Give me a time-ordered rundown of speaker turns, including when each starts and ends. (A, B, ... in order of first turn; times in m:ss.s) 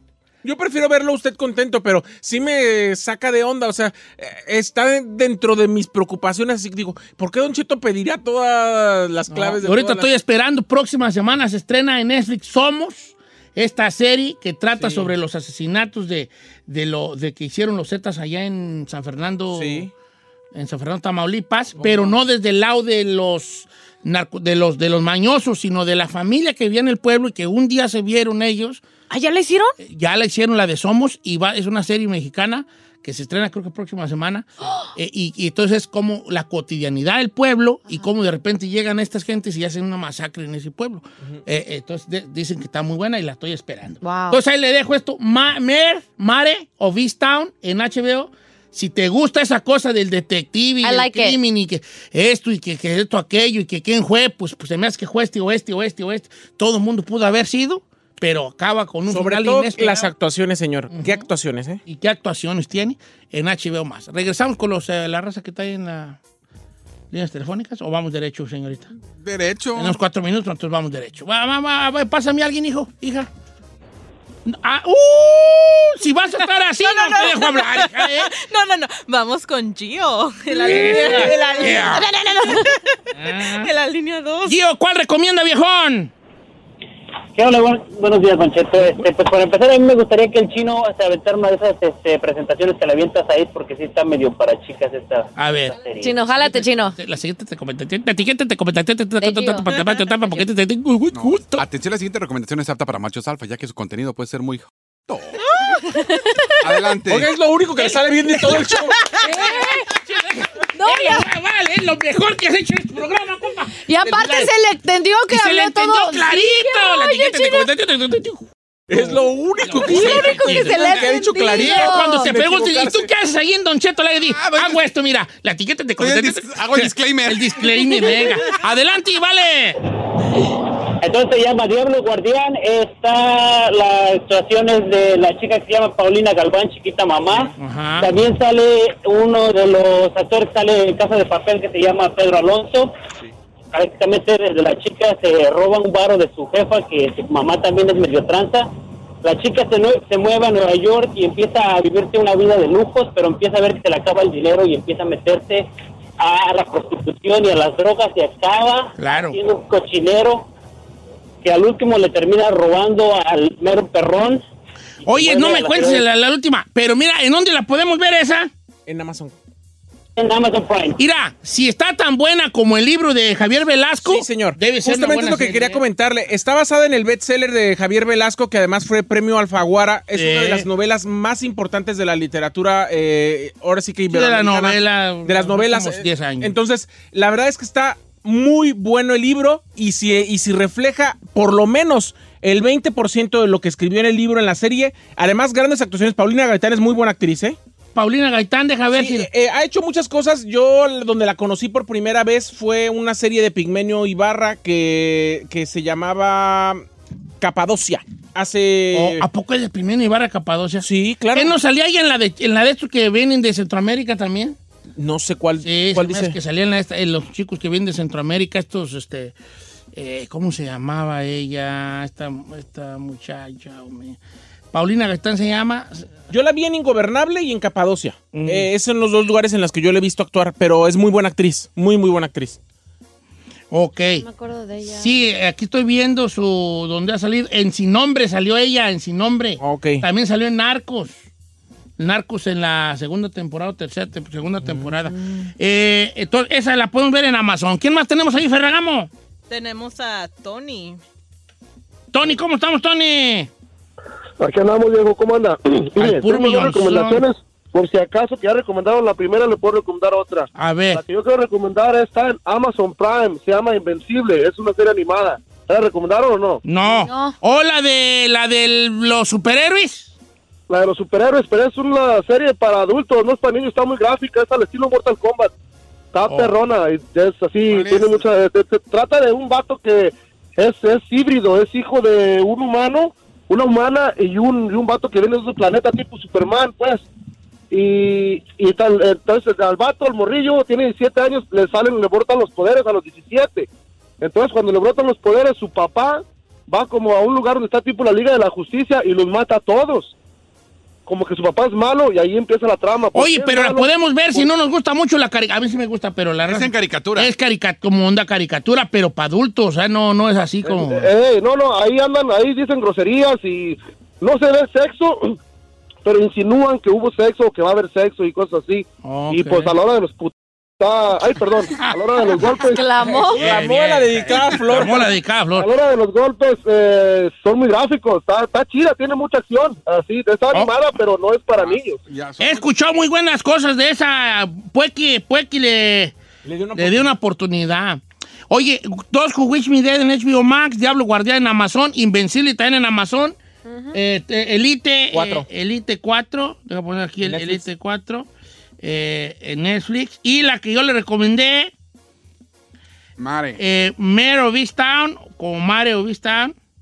0:00.4-0:10.1 A
0:09.3-0:19.9 B
0:14.8-0:15.1 A
0:19.5-0:19.9 A
0:20.5-0:28.8 B
0:29.1-0:29.7 C
0:29.8-1:00.1 B
0:44.0-0:44.4 C
0:50.8-0:51.4 C
0:59.1-1:01.8 A
1:00.9-1:01.2 B
1:01.9-1:06.2 B
1:07.1-1:08.9 B
1:09.2-1:10.0 D
1:09.8-1:13.3 B
1:14.5-1:18.3 B
1:16.8-1:24.6 E
1:20.5-1:22.1 B
1:20.6-1:22.7 C
1:23.1-1:23.7 B
1:24.4-1:26.1 B
1:27.3-1:36.2 F
1:35.4-1:35.8 B
1:36.0-1:37.0 C
1:36.4-1:41.6 B
1:39.2-1:39.7 C
1:41.1-1:45.4 D
1:45.7-1:46.7 C
1:46.6-1:47.3 D
1:47.1-1:49.1 A
1:48.5-1:49.9 C
1:49.2-1:54.5 B
1:50.8-1:51.2 C
1:53.8-1:57.7 C
1:55.3-2:09.8 B
1:58.9-2:03.1 A
1:59.8-2:02.3 C
2:04.3-2:04.8 D
2:06.0-2:07.8 D
2:11.0-2:23.0 F
2:17.6-2:18.1 B
2:23.7-2:28.7 F
2:29.2-2:35.7 F
2:36.2-2:40.5 F
2:39.0-2:39.4 B
2:41.4-2:44.4 F
2:45.0-2:46.0 F
2:45.0-2:48.5 B
2:48.9-2:49.4 A
2:50.2-2:51.0 F
2:51.0-2:55.8 B
2:54.0-3:17.6 A
3:00.1-3:00.7 B
3:04.1-3:06.6 B
3:18.0-3:19.3 B
3:18.9-3:26.8 A
3:27.4-3:29.2 A
3:28.9-3:34.6 B
3:30.8-3:31.5 A
3:35.0-3:36.4 A
3:35.6-3:39.4 B
3:40.0-3:44.2 B
3:44.7-3:46.1 B
3:46.3-3:52.6 A
3:48.3-3:48.7 B
3:53.7-3:54.2 B
3:54.2-3:55.1 C
3:54.9-4:01.2 B
3:59.6-4:00.0 A
4:02.0-4:09.1 B
4:04.6-4:04.9 A
4:09.5-4:11.0 E
4:12.1-4:13.5 B
4:14.4-4:26.6 G
4:16.0-4:17.2 B
4:20.6-4:21.0 B
4:26.6-4:30.1 B
4:26.9-4:27.4 C
4:30.7-4:35.5 G
4:36.1-4:47.0 G
4:36.3-4:36.5 B
4:37.7-4:38.2 D
4:47.7-4:53.7 G
4:54.2-5:00.1 G
5:01.1-5:04.5 G
5:03.1-5:11.1 B
5:06.4-5:07.3 D
5:10.6-5:15.4 G
5:16.0-5:22.9 G
5:19.0-5:19.7 B
5:22.7-5:23.5 C
5:23.0-5:25.7 B
5:23.2-5:25.1 A
5:25.6-5:32.0 G
5:31.6-5:32.7 D
5:32.4-5:36.1 B
5:36.4-5:37.1 A
5:36.8-5:43.4 B
5:43.7-5:44.0 C
5:43.9-5:48.3 B
5:45.1-5:45.5 A
5:47.2-5:47.6 A
5:48.8-5:51.7 B
5:53.2-5:53.6 D
5:53.6-5:56.5 B